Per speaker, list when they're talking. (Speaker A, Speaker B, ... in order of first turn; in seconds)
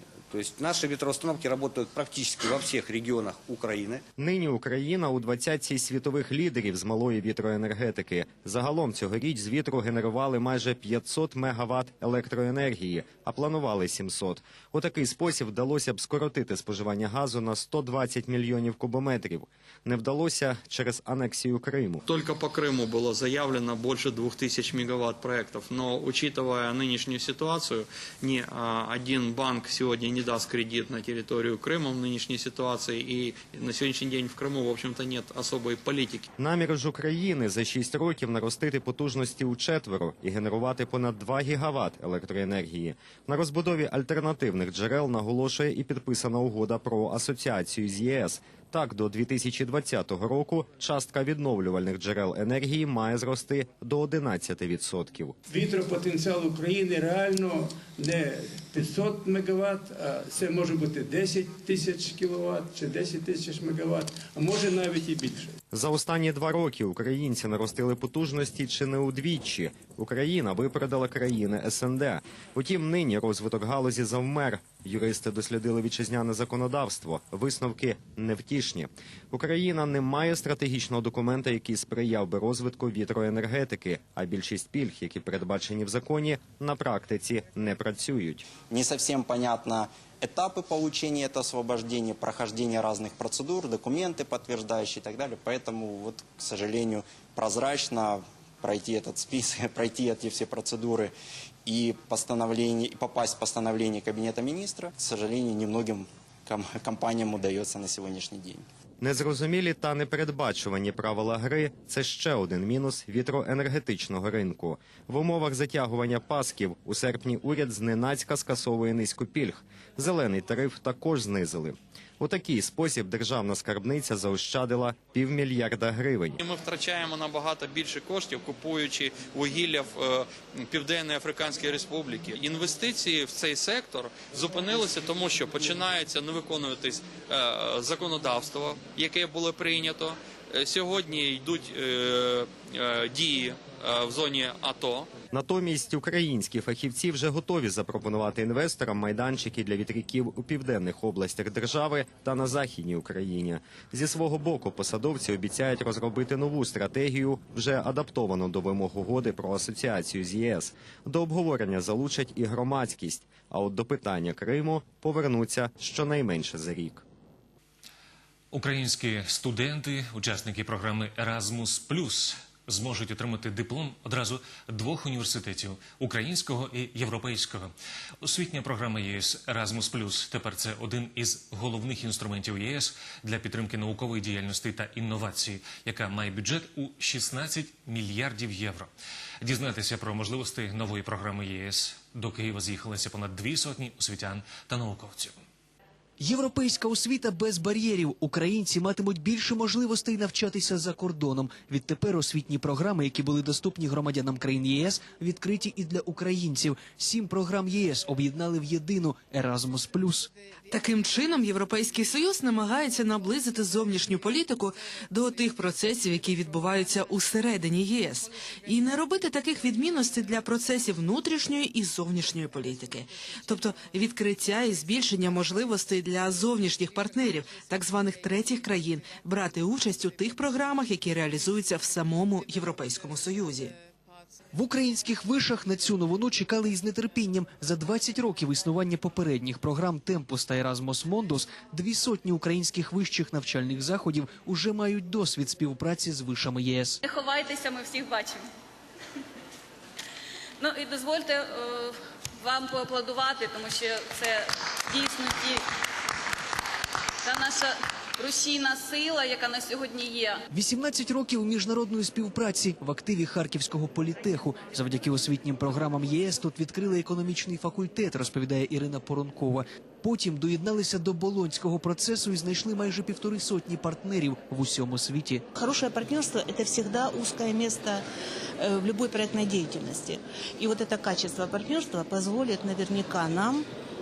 Speaker A: 0.3-4.0, 88.7-101.1, 101.7-108.7
Speaker B: 4.2-22.1, 36.4-55.4, 65.7-88.4, 109.0-126.4, 145.3-167.0
Speaker C: 22.1-36.3, 126.4-145.1
Speaker D: 55.5-65.5
Speaker E: 168.5-188.9, 189.4-195.4
Speaker F: 196.2-210.3, 234.5-247.0, 260.5-275.5
Speaker G: 210.7-233.8
Speaker H: 247.0-248.5, 250.6-255.6, 257.2-260.4
Speaker I: 275.6-278.0, 278.6-283.7